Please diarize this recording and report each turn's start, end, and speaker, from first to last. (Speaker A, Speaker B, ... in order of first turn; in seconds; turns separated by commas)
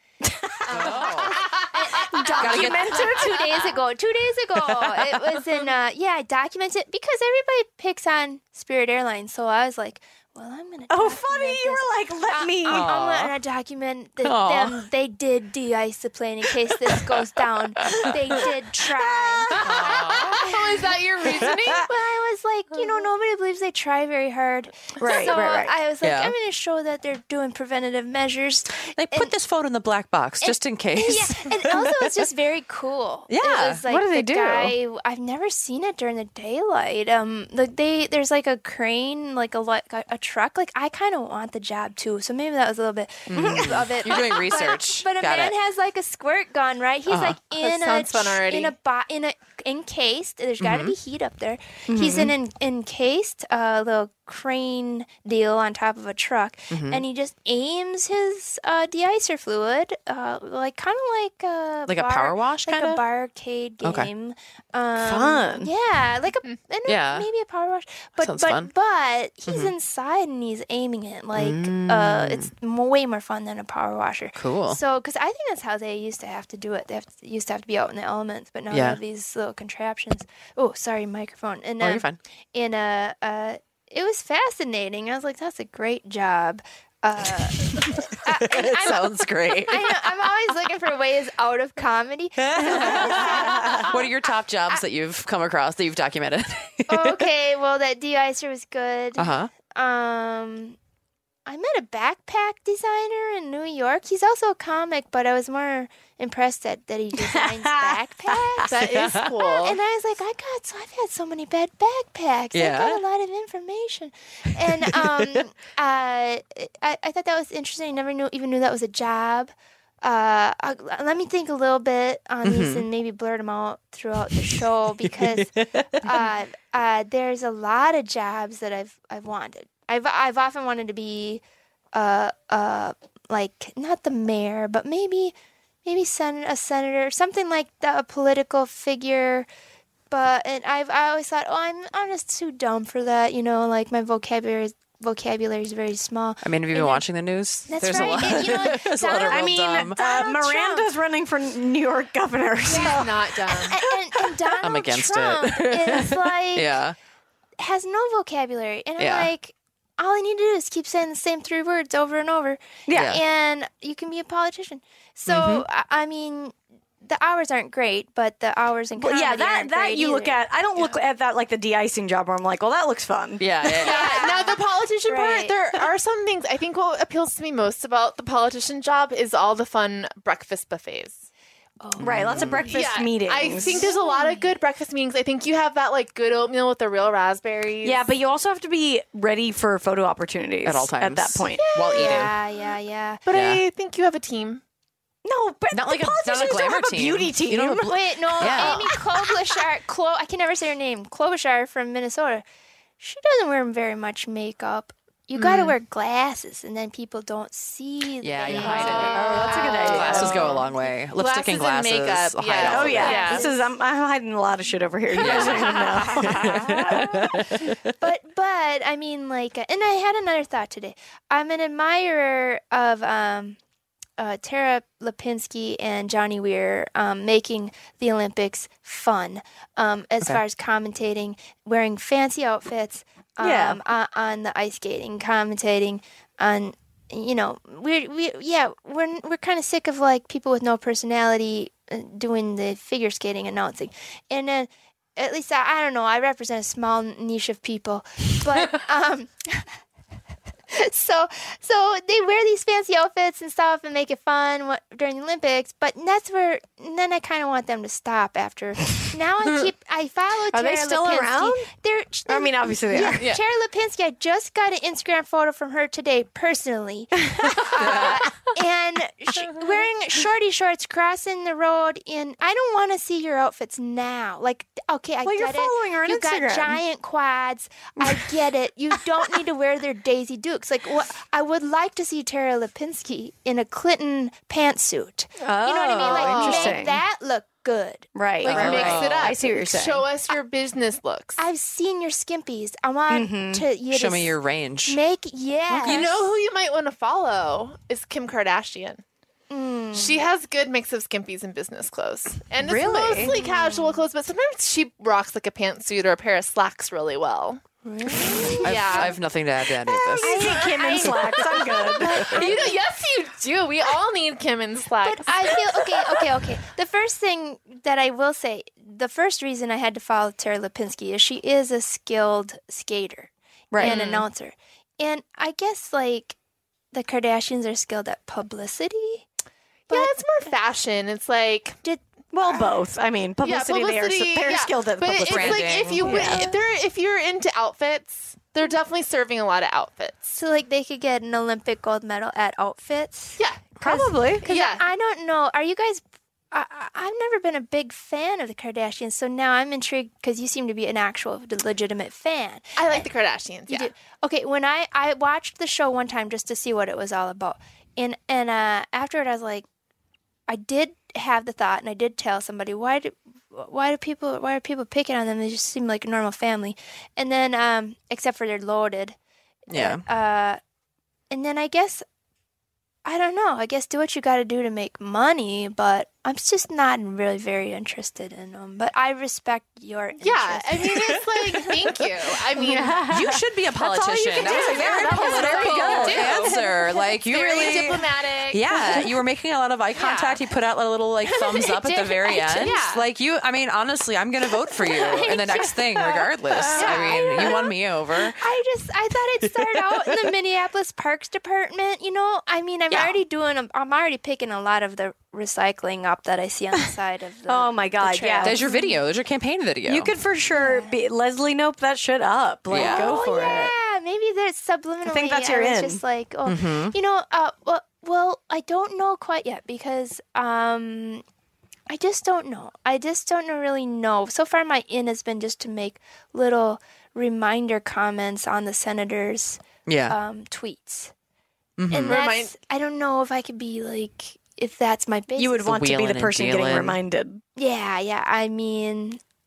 Speaker A: 0.2-1.0, Speaker B: 0.7-20.6, Speaker C: 0.7-1.5, Speaker A: 2.1-3.7, Speaker C: 2.4-3.2, Speaker C: 4.7-5.6, Speaker A: 10.9-12.9, Speaker C: 12.7-13.3, Speaker C: 14.2-14.8, Speaker C: 17.8-18.2, Speaker A: 19.0-19.9, Speaker C: 19.6-20.4, Speaker D: 19.8-21.9, Speaker B: 21.3-29.3, Speaker A: 25.0-25.7, Speaker C: 26.0-26.3, Speaker C: 29.0-32.1, Speaker B: 30.4-94.1, Speaker C: 33.3-33.8, Speaker A: 33.9-34.8, Speaker C: 43.3-45.5, Speaker A: 43.4-43.8, Speaker C: 47.1-47.4, Speaker D: 47.6-48.7, Speaker C: 50.6-50.9, Speaker A: 51.9-52.3, Speaker C: 56.7-57.0, Speaker C: 61.9-63.0, Speaker C: 63.8-64.1, Speaker A: 65.0-65.7, Speaker C: 66.9-67.3, Speaker C: 68.2-68.7, Speaker C: 69.5-69.7, Speaker C: 71.4-72.5, Speaker C: 74.4-74.8, Speaker C: 78.7-79.0, Speaker C: 81.8-82.2, Speaker C: 87.5-90.0, Speaker C: 92.4-97.2, Speaker A: 92.6-93.9, Speaker B: 96.9-100.8, Speaker C: 99.2-99.5, Speaker B: 101.5-108.8, Speaker A: 107.2-108.7, Speaker D: 108.7-109.8, Speaker C: 108.9-109.3, Speaker B: 109.4-131.4, Speaker C: 112.5-113.0, Speaker C: 114.8-115.4, Speaker C: 122.4-122.9, Speaker C: 125.1-126.2, Speaker B: 131.9-135.3, Speaker B: 135.8-139.5, Speaker B: 140.1-147.1, Speaker C: 146.4-150.0, Speaker B: 147.7-150.9, Speaker A: 147.9-148.7, Speaker A: 149.2-154.4, Speaker D: 152.7-153.8, Speaker B: 152.7-153.0, Speaker B: 153.7-156.8, Speaker C: 154.6-156.9, Speaker B: 157.6-170.4, Speaker C: 159.0-159.3, Speaker A: 162.9-163.2, Speaker C: 162.9-163.2, Speaker C: 165.3-165.7, Speaker A: 169.0-173.5, Speaker C: 173.4-174.2, Speaker D: 173.7-181.2, Speaker B: 173.7-175.6, Speaker B: 181.8-182.7, Speaker C: 182.0-182.7, Speaker A: 182.0-183.9, Speaker D: 182.7-188.0, Speaker B: 183.5-184.6, Speaker A: 187.8-191.7, Speaker C: 190.7-192.3, Speaker D: 191.6-192.4, Speaker B: 191.9-193.2, Speaker D: 193.2-194.6, Speaker C: 193.3-193.6, Speaker A: 195.2-199.0, Speaker C: 195.7-199.0, Speaker B: 197.8-202.4, Speaker B: 203.0-210.6, Speaker C: 205.4-205.7, Speaker C: 208.2-213.3, Speaker D: 208.5-213.5, Speaker A: 208.6-210.6, Speaker A: 212.6-217.3, Speaker B: 212.9-213.6, Speaker C: 215.2-217.8, Speaker D: 215.2-216.2, Speaker B: 215.3-223.6, Speaker B: 224.2-249.8, Speaker A: 233.4-233.8, Speaker B: 250.7-288.1, Speaker A: 260.5-261.7, Speaker A: 262.3-263.4, Speaker C: 267.8-268.3, Speaker A: 275.2-276.8, Speaker A: 278.0-278.3, Speaker A: 285.4-287.0, Speaker D: 286.0-286.8, Speaker A: 288.1-290.1, Speaker D: 288.4-291.4, Speaker C: 288.5-289.4, Speaker B: 291.4-296.3, Speaker A: 293.1-293.6, Speaker C: 293.9-295.0, Speaker A: 295.7-296.1, Speaker D: 295.8-299.0, Speaker B: 299.5-300.2, Speaker D: 299.9-307.6, Speaker A: 302.6-303.4, Speaker B: 303.2-304.0, Speaker B: 307.9-309.1, Speaker D: 308.5-309.2, Speaker C: 308.6-310.4, Speaker A: 310.2-312.5, Speaker B: 310.2-312.8, Speaker D: 311.0-316.2, Speaker B: 315.0-326.4, Speaker A: 323.7-324.0, Speaker D: 323.8-324.2, Speaker B: 326.9-329.2, Speaker B: 329.9-330.1, Speaker D: 329.9-331.8, Speaker B: 331.8-332.7, Speaker A: 332.3-336.6, Speaker D: 333.4-340.2, Speaker C: 335.2-336.1, Speaker B: 336.1-336.6, Speaker B: 340.3-353.1, Speaker D: 343.4-343.8, Speaker A: 343.8-344.4, Speaker D: 344.4-344.9, Speaker D: 352.8-353.9, Speaker B: 353.7-359.7, Speaker B: 360.5-369.2, Speaker B: 369.7-370.6, Speaker C: 369.7-370.0, Speaker B: 371.3-372.0, Speaker B: 373.1-381.2, Speaker D: 380.2-383.0, Speaker A: 382.6-386.5, Speaker C: 383.1-398.4, Speaker D: 384.2-386.7, Speaker B: 386.4-387.1, Speaker D: 387.2-389.0, Speaker A: 388.8-389.0, Speaker D: 389.9-390.4, Speaker D: 391.6-393.0, Speaker B: 392.2-392.7, Speaker B: 394.9-397.8, Speaker D: 396.8-397.4, Speaker B: 398.4-409.0, Speaker C: 399.4-400.3, Speaker A: 407.5-408.6, Speaker C: 408.4-410.1, Speaker A: 409.9-413.7, Speaker B: 410.5-410.9, Speaker C: 412.7-413.2, Speaker B: 412.7-421.2, Speaker A: 415.1-416.0, Speaker C: 416.4-416.9, Speaker B: 421.9-431.1, Speaker C: 429.9-430.2, Speaker C: 431.8-432.2, Speaker B: 431.9-435.7, Speaker D: 432.0-432.5, Speaker A: 435.4-437.4, Speaker C: 435.6-437.0, Speaker B: 437.6-439.2